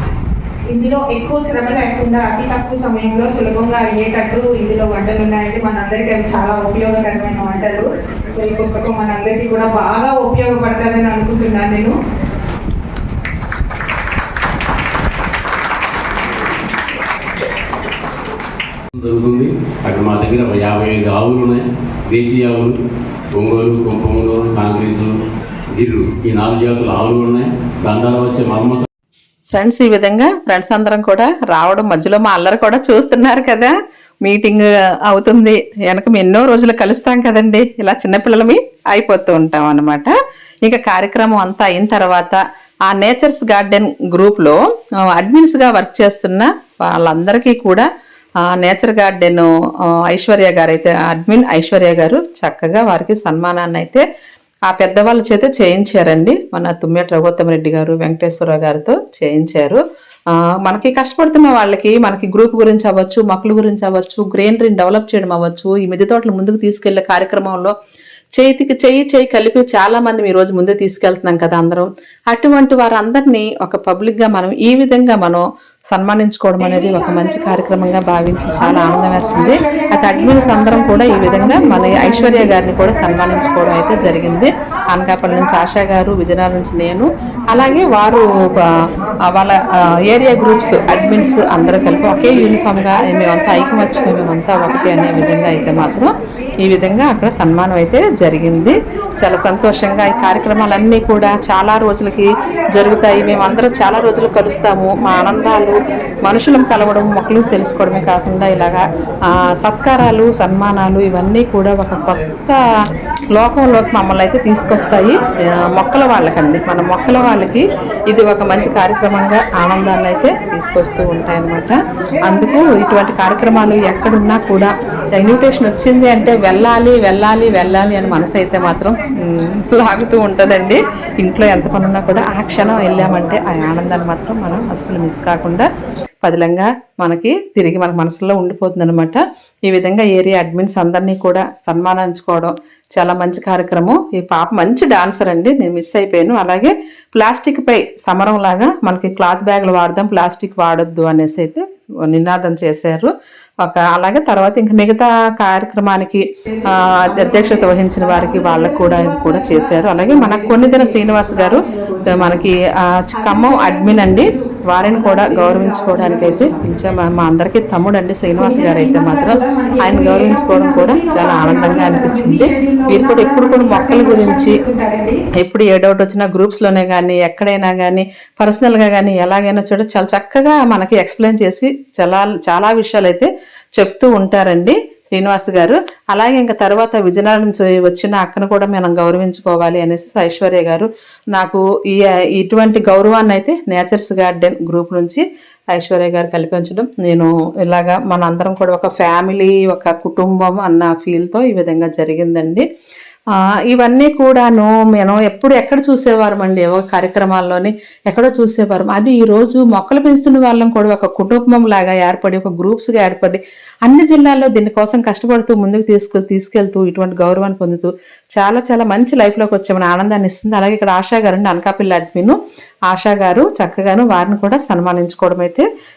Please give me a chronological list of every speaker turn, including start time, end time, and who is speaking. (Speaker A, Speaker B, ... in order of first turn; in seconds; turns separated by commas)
Speaker A: 0.7-11.9, Speaker B: 18.9-22.7, Speaker B: 23.3-25.1, Speaker B: 25.7-28.9, Speaker C: 29.5-33.7, Speaker C: 34.2-40.1, Speaker C: 40.6-44.6, Speaker C: 45.1-47.8, Speaker C: 48.5-49.5, Speaker C: 50.1-54.0, Speaker C: 54.7-59.8, Speaker C: 60.6-67.7, Speaker C: 68.4-88.2, Speaker A: 76.6-77.1, Speaker A: 78.5-82.6, Speaker C: 89.3-96.1, Speaker A: 90.5-92.2, Speaker C: 96.6-112.6, Speaker C: 113.3-135.7, Speaker C: 136.2-153.1, Speaker C: 153.6-174.6, Speaker A: 156.9-162.3, Speaker A: 163.2-166.6, Speaker A: 168.3-175.2, Speaker C: 175.4-202.6, Speaker C: 203.7-222.3, Speaker C: 222.9-225.7